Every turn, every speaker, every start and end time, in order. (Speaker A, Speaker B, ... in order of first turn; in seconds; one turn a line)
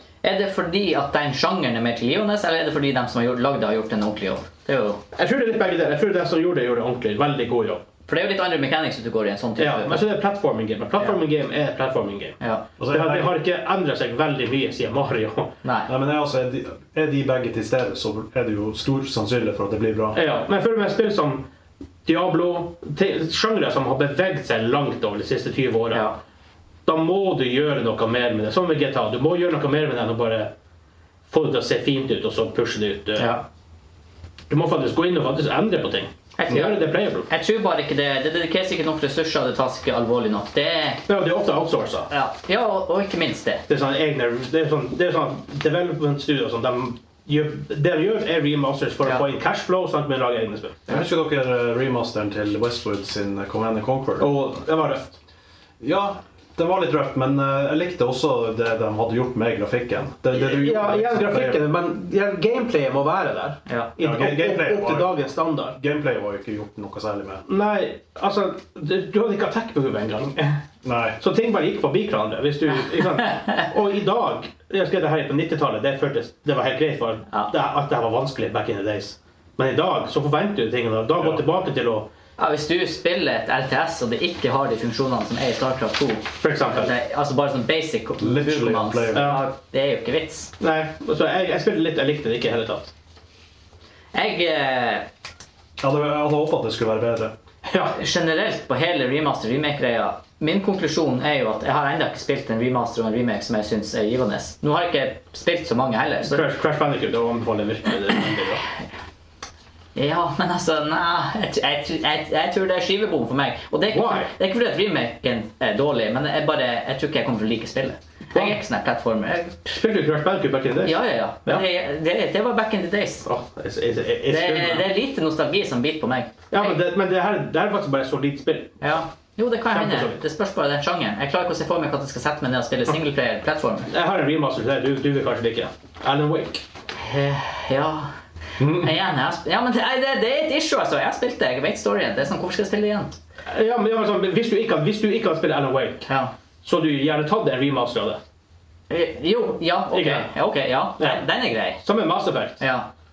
Speaker A: 0.2-5.0
Speaker B: 5.2-7.8
Speaker A: 8.1-10.0
Speaker B: 9.6-12.4
Speaker A: 12.4-12.7
Speaker C: 12.8-13.4
Speaker B: 12.9-15.5
Speaker A: 15.6-15.9
Speaker C: 15.9-20.2
Speaker B: 20.1-21.5
Speaker B: 22.1-26.1
Speaker A: 25.9-26.2
Speaker B: 26.9-30.5
Speaker B: 31.3-33.4
Speaker A: 33.2-33.5
Speaker B: 34.5-37.3
Speaker A: 36.4-41.0
Speaker B: 41.1-42.1
Speaker A: 42.1-43.6
Speaker B: 43.7-50.9
Speaker C: 50.9-54.3
Speaker B: 54.2-55.2
Speaker C: 55.8-61.6
Speaker B: 60.3-65.8
Speaker C: 64.0-65.1
Speaker C: 65.7-67.5
Speaker B: 67.5-70.6
Speaker C: 70.8-71.2
Speaker B: 71.2-82.1
Speaker A: 82.4-90.5
Speaker B: 86.4-86.9
Speaker C: 88.2-89.4
Speaker B: 89.1-89.4
Speaker B: 90.6-92.9
Speaker A: 94.1-95.1
Speaker C: 95.8-97.3
Speaker B: 97.7-98.0
Speaker A: 98.0-106.5
Speaker B: 106.3-108.6
Speaker A: 110.0-119.7
Speaker B: 113.9-114.3
Speaker B: 119.7-121.6
Speaker A: 120.8-123.3
Speaker B: 123.2-124.9
Speaker A: 124.3-126.8
Speaker B: 126.5-128.8
Speaker A: 128.8-133.9
Speaker B: 129.7-130.2
Speaker B: 133.9-136.6
Speaker A: 137.0-143.2
Speaker C: 138.6-138.9
Speaker B: 143.5-146.1
Speaker A: 146.1-146.3
Speaker B: 146.6-148.2
Speaker A: 148.9-151.8
Speaker B: 149.9-150.3
Speaker B: 151.8-152.6
Speaker A: 152.6-152.9